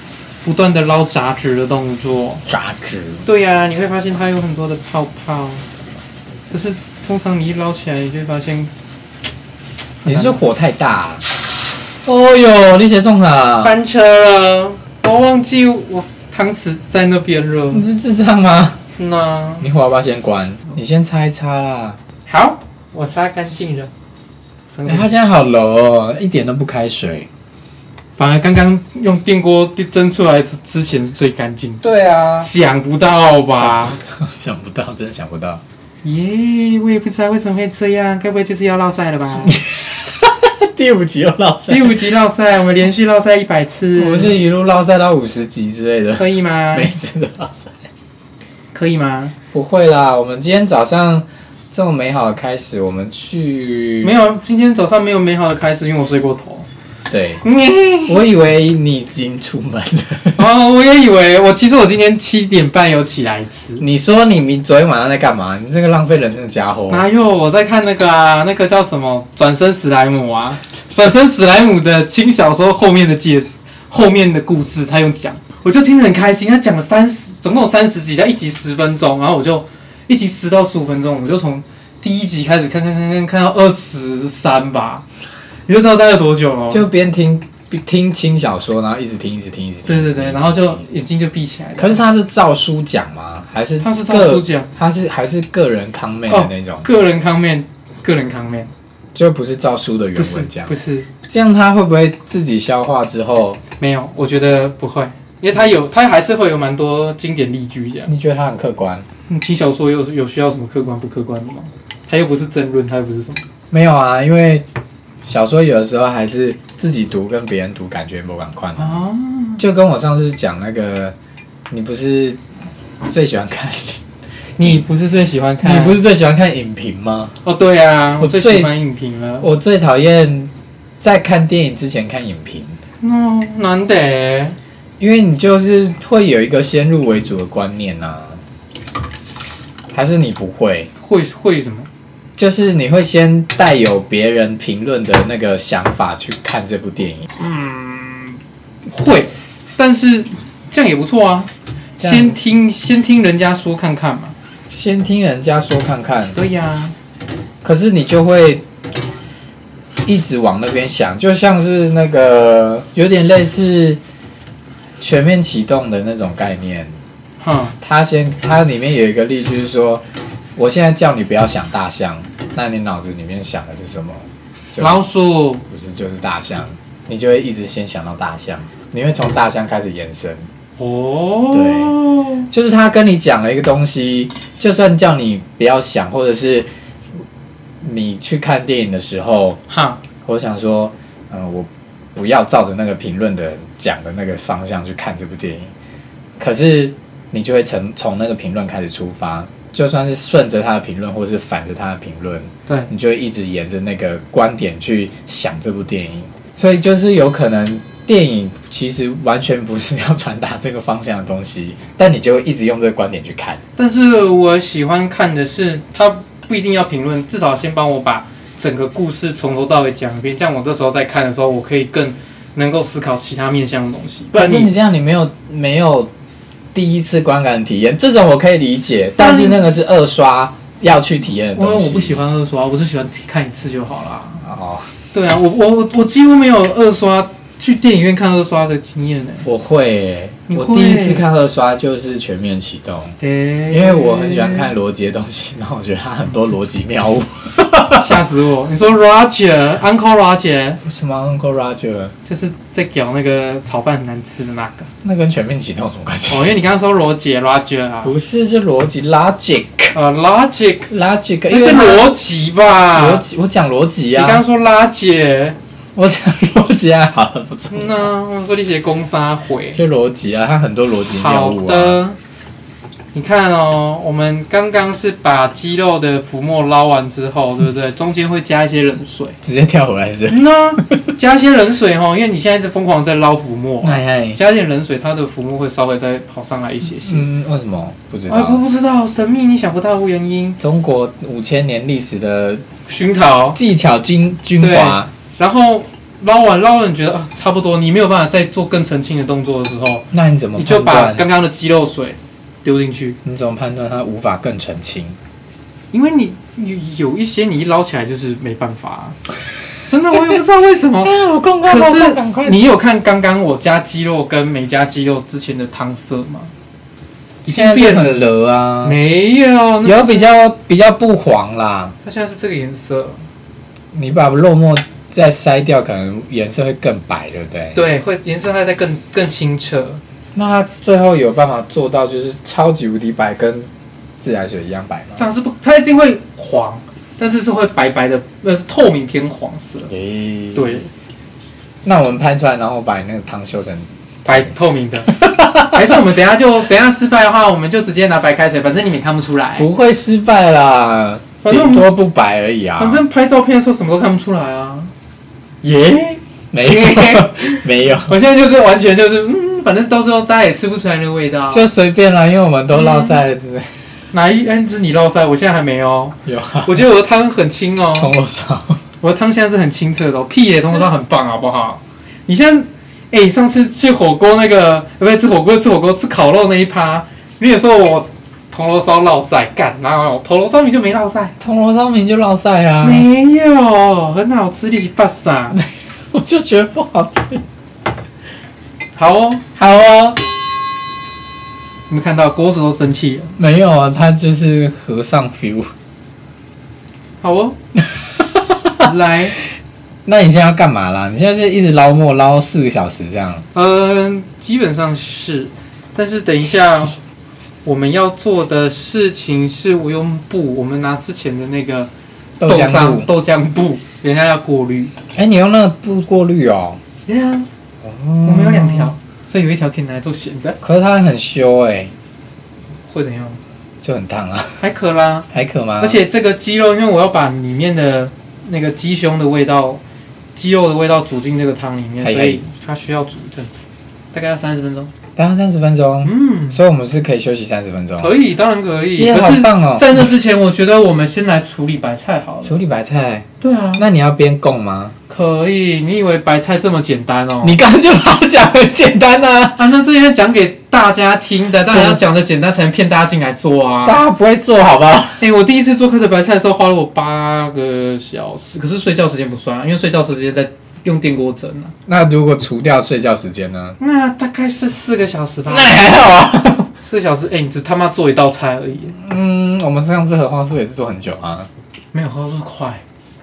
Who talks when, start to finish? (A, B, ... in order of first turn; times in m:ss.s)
0:00.4-0:02.4 A
0:02.5-0:03.3 B
0:03.2-0:05.6 A
0:06.5-0:08.7 A
0:10.0-0:10.4 A
0:10.0-0:11.3 B
0:12.0-0:13.7 B
0:13.6-0:17.8 A
0:17.7-0:18.8 B
0:19.0-0:19.7 A
0:19.6-0:22.0 B
0:22.2-0:23.9 A
0:24.7-0:25.1 A
0:24.8-0:27.3 B
0:28.2-0:31.8 A
0:31.8-0:32.5 B
0:32.4-0:34.0 A
0:33.5-0:35.6 B
0:36.0-0:39.6 A
0:39.4-0:42.0 B
0:41.7-0:44.4 A
0:43.9-0:47.8 B
0:46.1-0:46.9 A
0:48.7-0:49.3 A
0:49.5-0:54.1 B
0:54.0-0:56.6 A
0:57.1-0:57.4 B
0:57.4-0:58.2 A
0:58.1-1:00.4 B
1:00.4-1:03.8 A
1:03.8-1:07.1 B
1:06.9-1:25.0 A
1:25.7-1:26.9 A
1:26.7-1:30.8 B
1:29.8-1:32.0 A
1:31.8-1:36.9 B
1:33.8-1:34.7 A
1:36.3-1:38.7 A
1:39.1-1:40.7 B
1:40.2-1:41.1 A
1:41.3-1:43.6 B
1:43.8-1:48.1 A
1:48.1-1:49.1 B
1:49.3-1:53.4 A
1:53.7-1:54.6 B
1:55.2-1:59.0 B
1:58.8-1:59.6 A
1:59.6-2:01.1 B
2:01.7-2:02.4 B
2:03.0-2:04.0 B
2:04.6-2:06.0 A
2:05.6-2:07.4 B
2:07.4-2:09.5 A
2:08.2-2:08.7 B
2:09.4-2:12.8 B
2:13.0-2:14.6 A
2:15.0-2:18.4 B
2:19.9-2:20.9 B
2:21.0-2:21.9 A
2:22.4-2:27.3 B
2:27.4-2:34.3 A
2:32.0-2:32.4 B
2:34.7-2:36.4 B
2:36.3-2:36.9 A
2:37.6-2:38.6 B
2:40.0-2:44.0 B
2:45.0-2:47.0 B
2:47.4-2:47.8 A
2:47.8-2:50.0 B
2:50.6-2:55.0 B
2:54.8-2:55.6 A
2:55.7-3:00.5 B
3:00.8-3:02.5 A
3:01.5-3:02.0 B
3:02.5-3:06.7 B
3:07.8-3:09.6 B
3:09.7-3:10.0 A
3:10.2-3:15.7 B
3:16.4-3:33.6 B
3:33.8-3:44.7 A
3:44.3-3:46.1 B
3:46.7-3:52.2 B
3:49.2-3:49.6 A
3:51.5-3:54.4 A
3:54.4-3:54.9 B
3:55.1-3:59.5 A
3:59.4-4:03.2 B
4:00.5-4:01.2 A
4:03.2-4:04.7 A
4:03.7-4:08.2 B
4:07.9-4:10.8 A
4:10.8-4:12.1 B
4:12.2-4:14.9 A
4:15.0-4:16.5 B
4:16.3-4:18.2 A
4:18.0-4:19.9 B
4:19.9-4:20.9 A
4:20.9-4:22.1 B
4:21.5-4:23.2 A
4:22.9-4:24.4 B
4:24.1-4:25.6 A
4:25.9-4:28.1 B
4:27.7-4:29.8 A
4:29.7-4:32.0 B
4:31.1-4:32.2 A
4:33.1-4:39.4 A
4:39.4-4:41.1 B
4:40.3-4:47.2 A
4:43.8-4:44.4 B
4:47.0-4:48.6 B
4:48.3-4:50.6 A
4:50.6-4:52.6 B
4:52.9-4:53.6 A
4:53.5-4:55.1 B
4:54.6-5:03.2 A
5:00.1-5:01.2 B
5:03.2-5:05.2 B
5:05.9-5:09.2 A
5:09.8-5:16.5 A
5:11.0-5:12.6 B
5:17.4-5:18.2 A
5:17.4-5:19.0 B
5:18.8-5:20.3 A
5:19.8-5:22.0 B
5:22.0-5:23.3 A
5:23.9-5:27.8 B
5:27.7-5:30.0 A
5:30.3-5:35.2 B
5:35.2-5:39.9 A
5:39.9-5:40.8 B
5:40.5-5:40.9 A
5:41.8-5:44.4 B
5:44.2-5:49.7 A
5:45.1-5:46.0 B
5:49.6-5:53.0 B
5:51.4-5:51.9 A
5:52.8-5:54.9 A
5:55.6-6:01.7 A
5:56.5-5:58.1 B
6:01.5-6:04.0 B
6:02.7-6:03.2 A
6:04.1-6:08.1 A
6:06.2-6:06.8 B
6:08.0-6:08.8 B
6:09.0-6:21.3 A
6:21.4-6:23.1 B
6:22.8-6:25.6 A
6:25.5-6:27.4 B
6:29.0-6:29.4 A
6:29.6-6:30.2 B
6:31.9-6:33.3 A
6:33.4-6:35.7 B
6:37.2-6:37.6 A
6:37.7-6:38.9 B
6:38.8-6:39.4 A
6:40.0-6:43.5 B
6:43.5-6:47.0 A
6:47.6-6:51.9 A
6:52.4-6:53.1 B
6:52.4-6:54.9 A
6:55.1-6:56.8 B
6:57.1-6:57.5 A
6:57.8-6:58.9 B
6:58.2-7:00.6 A
7:00.6-7:01.9 B
7:02.9-7:03.4 A
7:03.8-7:04.6 B
7:04.6-7:05.2 A
7:05.3-7:06.0 B
7:05.8-7:09.8 A
7:10.4-7:14.9 A
7:12.0-7:12.4 B
7:15.2-7:18.2 B
7:16.0-7:16.6 A
7:18.0-7:22.6 A
7:19.0-7:20.1 B
7:22.4-7:24.9 B
7:23.4-7:23.8 A
7:25.1-7:27.6 A
7:27.4-7:29.6 B
7:29.6-7:34.0 A
7:31.7-7:32.0 B
7:33.8-7:35.2 B
7:35.2-7:41.7 A
7:41.8-7:43.8 B
7:43.8-7:46.0 A
7:45.5-7:46.7 B
7:46.8-7:49.0 A
7:49.0-7:51.5 B
7:51.9-7:52.8 A